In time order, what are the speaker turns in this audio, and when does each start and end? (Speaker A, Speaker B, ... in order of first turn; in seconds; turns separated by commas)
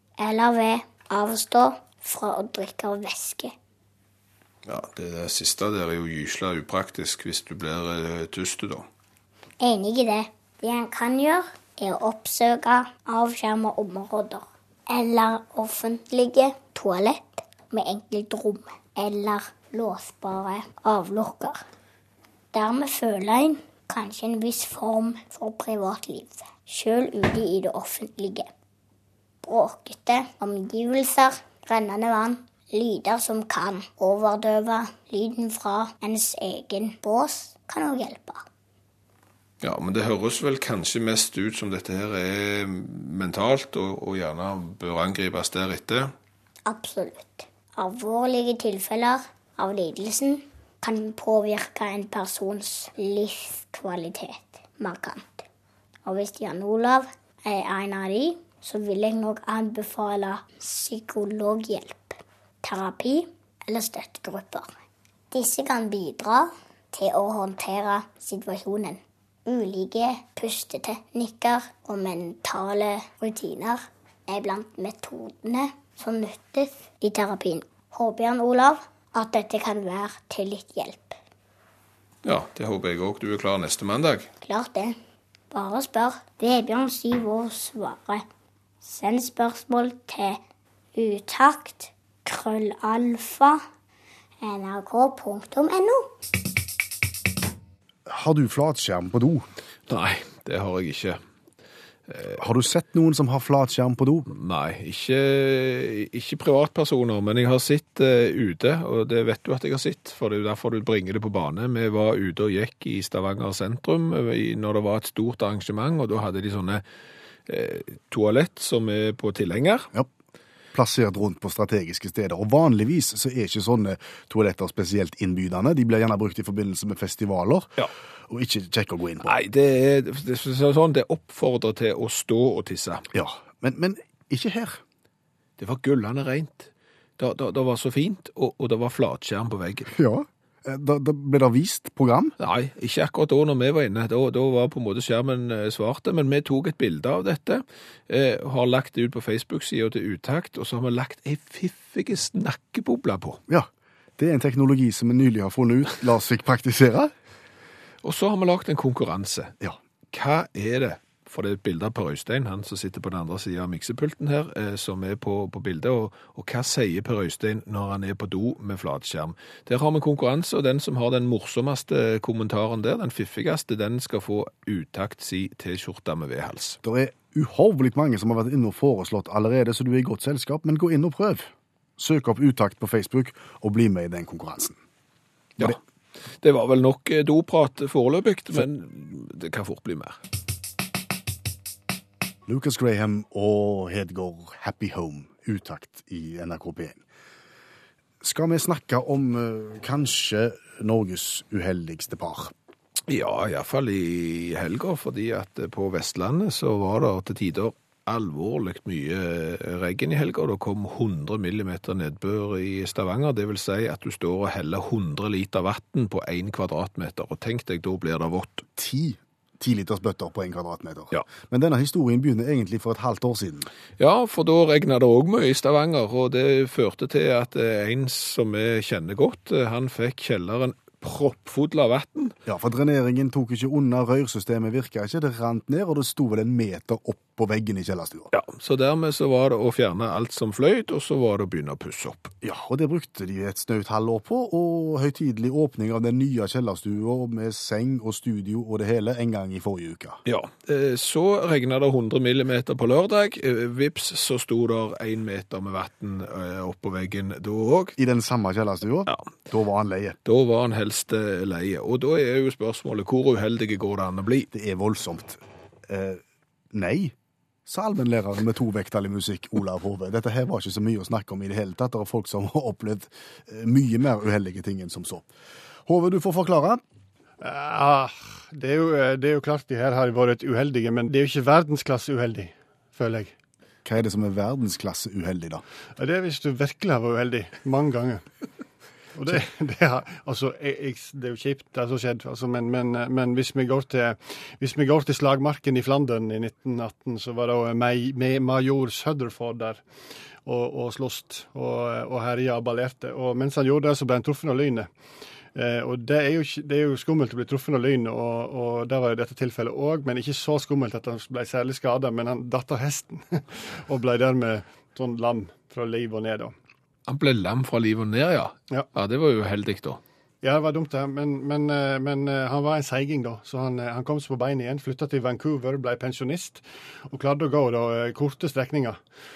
Speaker A: 0.2-3.5, Speaker B: 4.7-8.9, Speaker A: 9.6-21.6, Speaker A: 22.5-28.5, Speaker A: 29.4-38.5, Speaker B: 39.6-46.1, Speaker A: 46.7-55.5, Speaker A: 56.0-64.7, Speaker A: 65.3-81.2, Speaker B: 82.2-84.3, Speaker A: 84.4-85.0, Speaker A: 85.5-88.2, Speaker A: 88.8-90.4, Speaker A: 91.0-93.6, Speaker A: 94.4-96.1, Speaker C: 98.1-99.5, Speaker B: 99.9-101.2, Speaker B: 102.1-102.4, Speaker C: 102.4-104.3, Speaker B: 104.3-116.8, Speaker B: 117.5-119.9, Speaker C: 120.7-127.8, Speaker C: 128.3-129.4, Speaker B: 129.2-133.1, Speaker C: 133.1-134.8, Speaker B: 135.6-139.9, Speaker C: 139.9-142.4, Speaker B: 142.4-153.4, Speaker C: 153.5-157.1, Speaker B: 158.0-159.5, Speaker B: 160.1-176.8, Speaker C: 176.8-184.8, Speaker B: 186.4-190.2, Speaker C: 192.5-197.0, Speaker C: 198.2-202.5, Speaker B: 203.1-218.7, Speaker C: 218.8-223.7, Speaker B: 224.0-232.3, Speaker C: 232.5-238.3, Speaker B: 238.3-242.3, Speaker C: 242.4-250.2, Speaker B: 250.3-258.0, Speaker C: 258.0-260.2, Speaker B: 260.2-264.5, Speaker C: 264.5-267.1, Speaker C: 267.7-275.3, Speaker C: 275.9-276.8, Speaker D: 277.4-283.3, Speaker C: 283.9-285.6, Speaker D: 286.0-288.2, Speaker D: 289.1-299.8, Speaker D: 300.4-304.9, Speaker D: 305.6-316.5, Speaker B: 317.1-320.0, Speaker D: 320.4-329.0